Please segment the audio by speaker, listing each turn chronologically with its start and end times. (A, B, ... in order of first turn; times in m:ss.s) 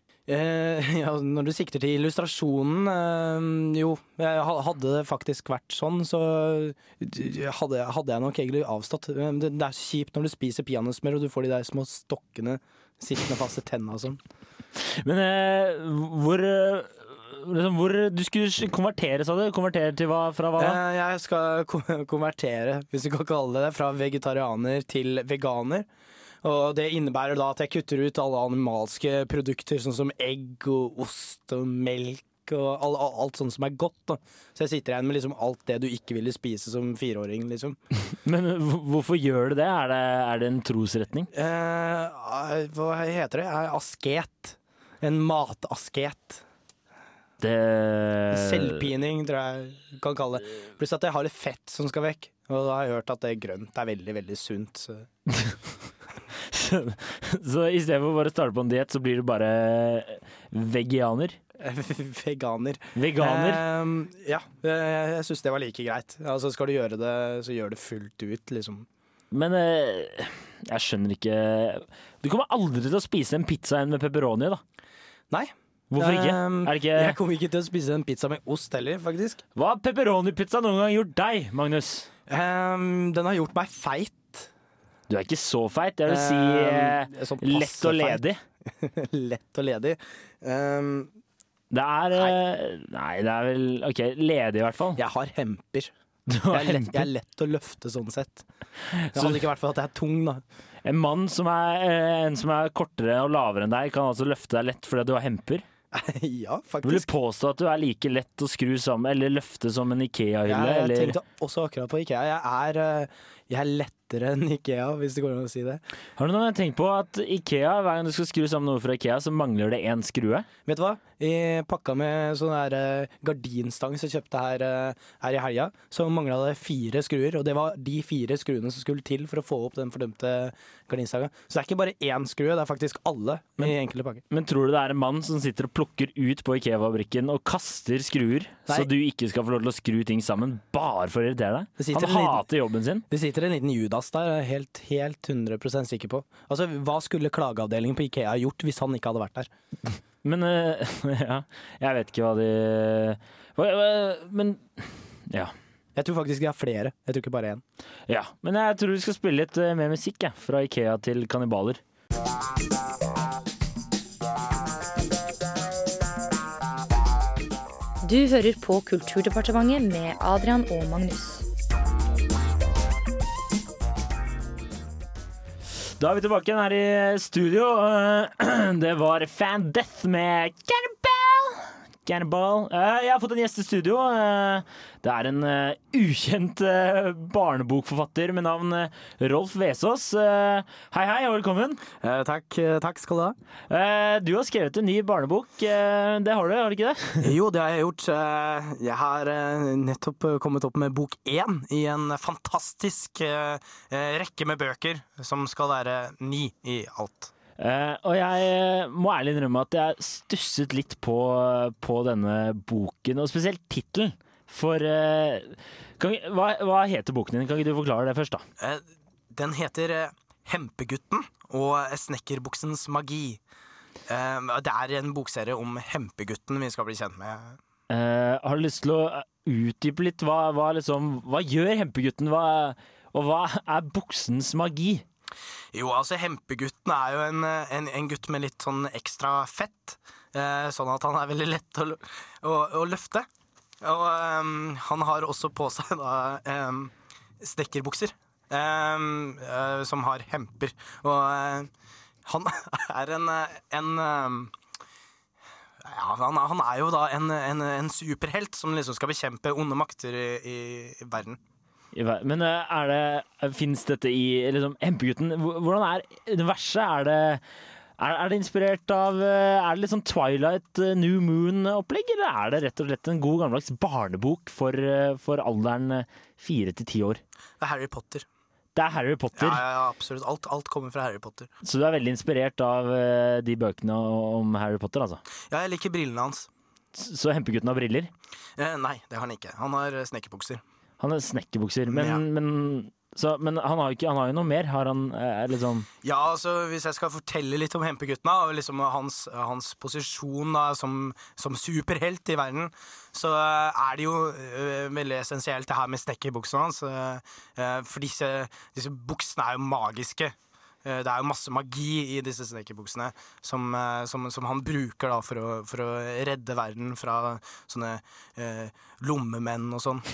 0:00.3-0:14.2 A
0:14.8-0:20.8 B
0:20.6-0:25.9 A
0:26.4-0:37.8 A
0:38.1-0:41.3 B
0:41.3-0:46.4 A
0:47.4-0:48.9 B
0:48.3-0:55.1 A
0:56.4-1:01.4 B
1:01.6-1:08.9 A
1:03.0-1:03.6 B
1:09.3-1:14.6 B
1:15.3-1:19.4 A
1:15.9-1:17.2 B
1:19.6-1:22.1 B
1:22.3-1:24.5 A
1:25.1-1:28.4 B
1:26.1-1:31.1 A
1:31.7-1:35.0 B
1:35.0-1:35.9 A
1:36.3-1:37.1 B
1:36.5-1:38.5 A
1:38.9-1:39.4 B
1:39.1-1:40.4 A
1:40.8-1:45.6 B
1:45.9-1:47.1 A
1:46.8-1:51.2 B
1:50.5-1:55.8 A
1:56.2-2:00.5 B
2:00.7-2:14.2 A
2:14.3-2:23.1 B
2:21.8-2:22.5 A
2:23.1-2:29.5 A
2:30.2-2:35.5 B
2:36.0-2:37.6 A
2:38.1-2:41.8 B
2:48.0-2:51.4 C
2:56.0-3:11.8 B
3:12.0-3:13.4 A
3:13.7-3:17.4 B
3:17.2-3:27.3 A
3:27.6-3:38.4 B
3:38.6-3:43.4 A
3:44.1-3:47.6 A
3:47.9-3:55.0 B
3:55.7-4:03.3 A
4:03.8-4:11.7 A
4:12.2-4:14.5 A
4:15.8-4:21.4 A
4:21.9-4:27.4 B
4:28.0-4:37.2 B
4:37.6-4:38.3 A
4:38.8-4:39.6 B
4:39.4-4:41.5 A
4:41.6-4:45.2 B
4:45.5-4:46.5 A
4:46.9-4:48.1 B
4:48.6-4:50.6 A
4:51.0-4:55.9 B
4:51.9-4:52.2 A
4:56.0-5:20.0 A